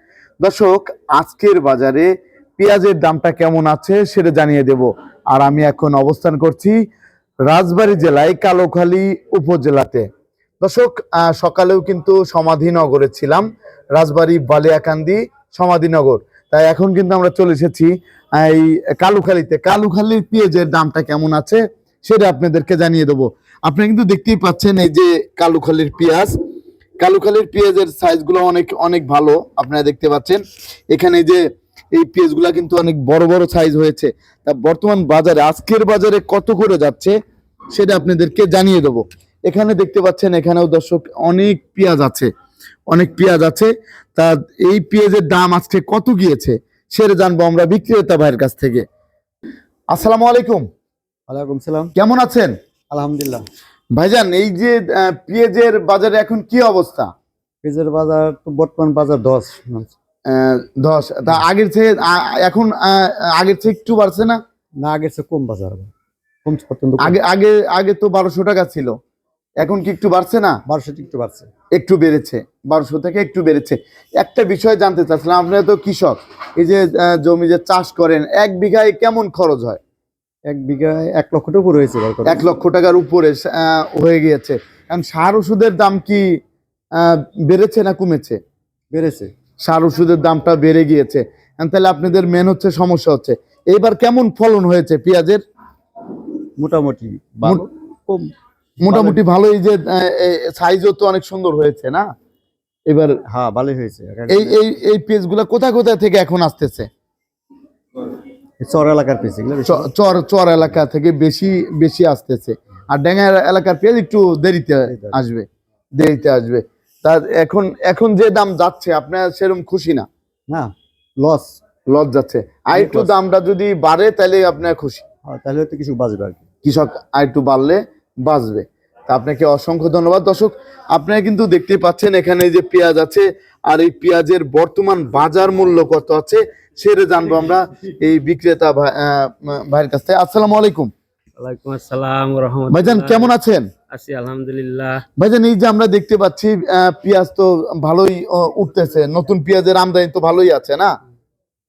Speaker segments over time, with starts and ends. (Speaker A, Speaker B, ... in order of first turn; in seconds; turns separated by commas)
Speaker A: 0.4-2.1, Speaker A: 2.6-6.8, Speaker A: 7.5-10.1, Speaker A: 10.6-26.3, Speaker A: 27.0-30.4, Speaker A: 30.9-31.4, Speaker A: 31.9-37.2, Speaker A: 37.7-42.3, Speaker A: 42.9-48.8, Speaker A: 49.9-50.6, Speaker B: 51.3-51.9, Speaker A: 52.0-52.5, Speaker B: 52.9-53.4, Speaker A: 53.9-57.1, Speaker B: 57.6-59.9, Speaker A: 60.3-64.4, Speaker B: 64.8-65.9, Speaker B: 66.4-67.2, Speaker A: 67.0-69.0, Speaker A: 69.6-70.6, Speaker B: 70.7-71.5, Speaker A: 71.8-79.8, Speaker B: 80.5-82.4, Speaker A: 82.2-86.4, Speaker A: 87.0-88.4, Speaker B: 88.9-89.3, Speaker A: 89.7-95.4, Speaker B: 96.6-98.3, Speaker A: 98.8-102.1, Speaker B: 98.9-99.2, Speaker A: 102.9-103.2, Speaker B: 103.3-104.6, Speaker A: 104.3-106.9, Speaker B: 108.6-109.9, Speaker A: 109.7-115.5, Speaker B: 114.8-115.2, Speaker A: 116.0-120.1, Speaker B: 120.5-121.6, Speaker A: 121.9-125.0, Speaker B: 122.7-123.1, Speaker B: 125.2-126.4, Speaker A: 126.6-140.9, Speaker C: 141.4-143.3, Speaker A: 142.7-143.7, Speaker C: 143.9-145.0, Speaker A: 145.2-151.0